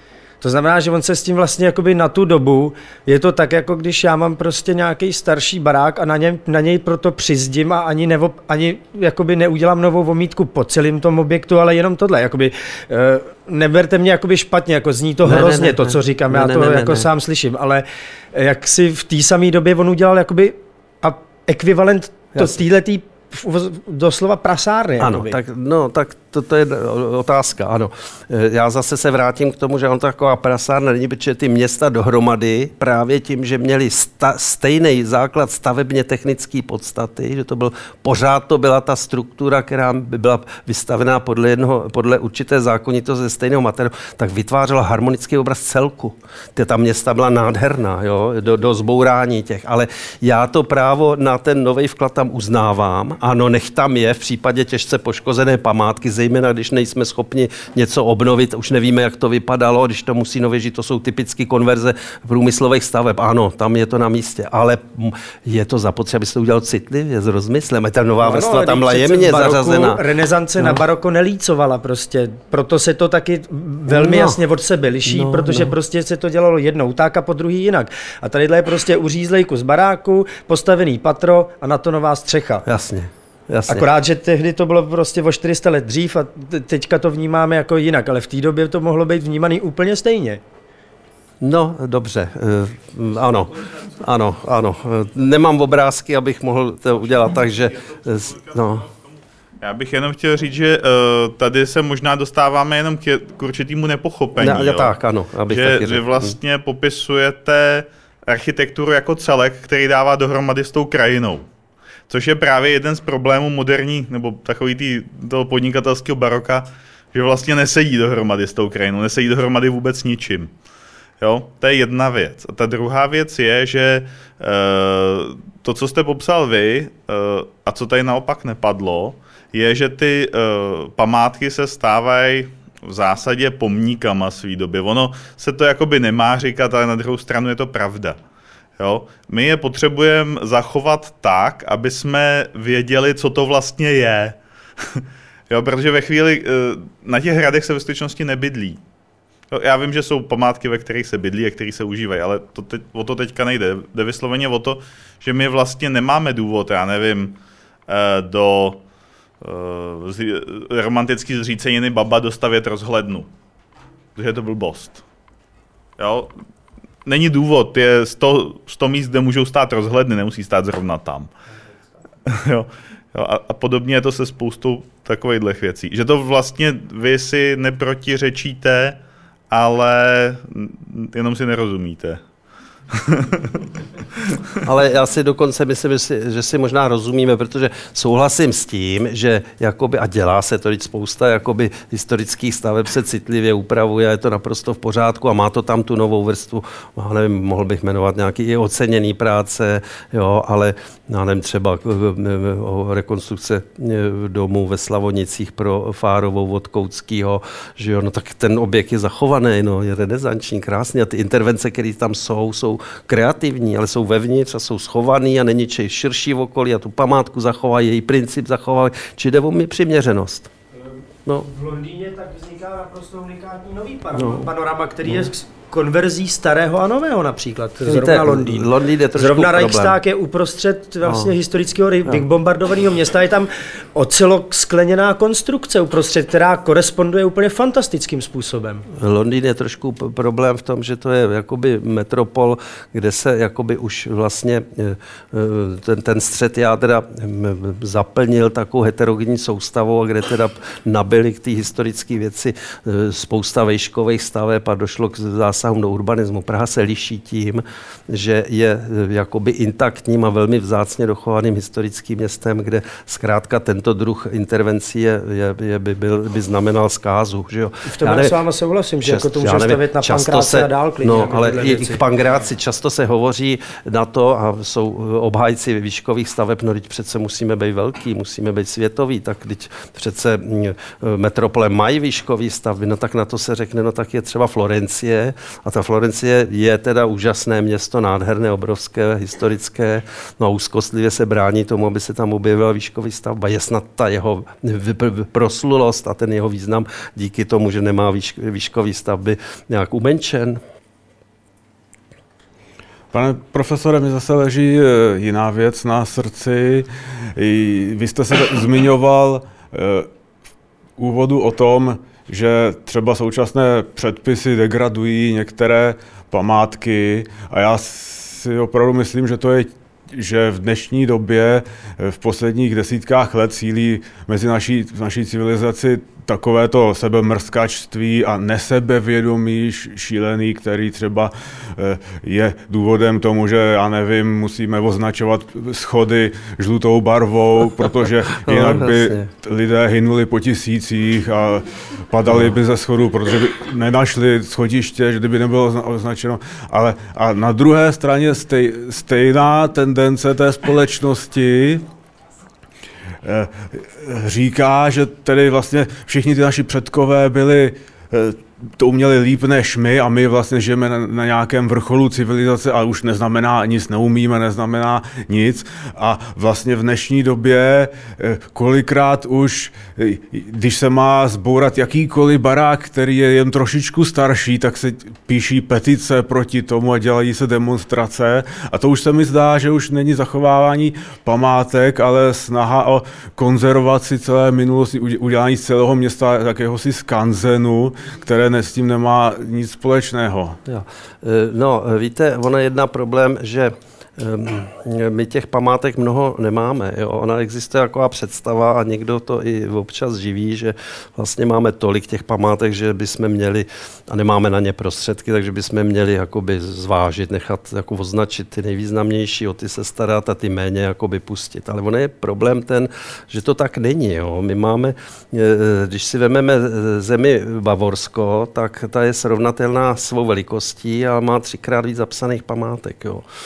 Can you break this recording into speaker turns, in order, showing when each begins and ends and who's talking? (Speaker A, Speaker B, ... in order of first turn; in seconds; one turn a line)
Speaker A: 0.4-25.4
Speaker B: 15.2-17.1
Speaker B: 25.0-70.0
Speaker A: 68.2-82.6
Speaker B: 70.6-70.8
Speaker B: 73.9-74.4
Speaker B: 75.1-75.7
Speaker B: 82.6-83.9
Speaker A: 83.7-90.4
Speaker B: 91.4-98.9
Speaker C: 99.6-104.9
Speaker B: 104.4-106.3
Speaker C: 105.5-111.5
Speaker C: 112.1-120.5
Speaker C: 121.2-138.2
Speaker C: 138.8-144.4
Speaker C: 144.9-148.8
Speaker C: 149.5-158.8
Speaker C: 159.4-163.3
Speaker C: 164.2-165.0
Speaker C: 166.0-166.3
Speaker C: 167.1-171.3
Speaker C: 172.3-179.0
Speaker C: 179.5-182.2
Speaker C: 182.9-183.6
Speaker B: 184.6-220.5
Speaker A: 221.4-238.8
Speaker B: 224.1-224.5
Speaker B: 225.1-225.3
Speaker B: 227.8-230.0
Speaker B: 231.1-231.3
Speaker B: 238.9-268.4
Speaker A: 267.9-272.0
Speaker B: 269.0-300.6
Speaker D: 303.1-310.1
Speaker D: 311.0-351.9
Speaker B: 338.4-339.3
Speaker B: 342.3-342.5
Speaker D: 353.2-390.6
Speaker B: 390.6-423.3